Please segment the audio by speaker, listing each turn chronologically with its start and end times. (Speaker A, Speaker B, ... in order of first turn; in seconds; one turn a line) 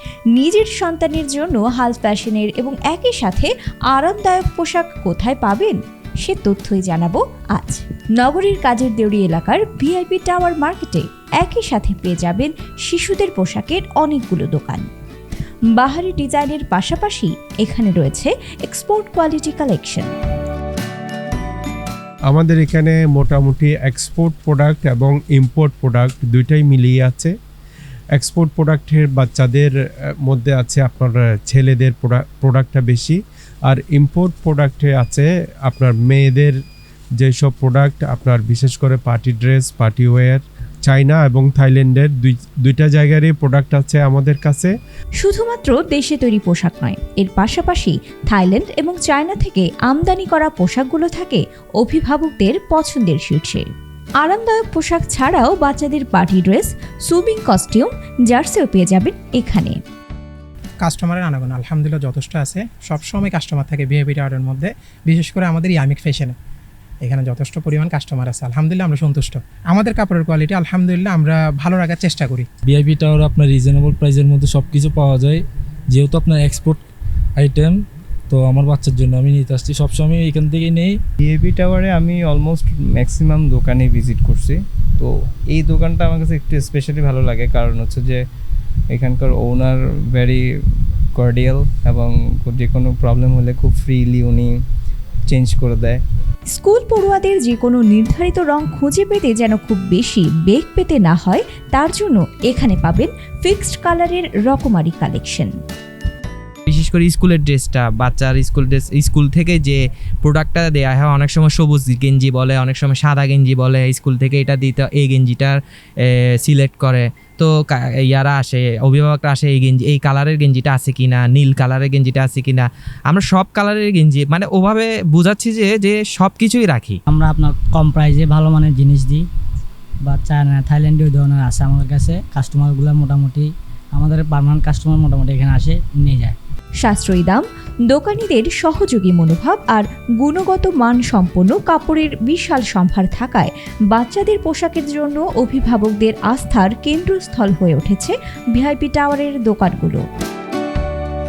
Speaker A: 0.3-14.9
Speaker A: 15.7-20.1
Speaker B: 22.3-27.3
Speaker B: 28.1-36.5
Speaker B: 37.2-44.7
Speaker A: 45.2-53.7
Speaker A: 54.2-59.8
Speaker C: 60.8-66.3
Speaker C: 67.0-72.5
Speaker D: 72.7-75.4
Speaker D: 75.9-76.8
Speaker D: 77.4-77.8
Speaker D: 78.3-81.0
Speaker E: 81.2-88.2
Speaker E: 88.9-94.5
Speaker E: 95.3-96.0
Speaker A: 96.5-105.5
Speaker F: 106.7-127.0
Speaker G: 127.1-129.2
Speaker G: 130.0-136.3
Speaker A: 136.8-150.0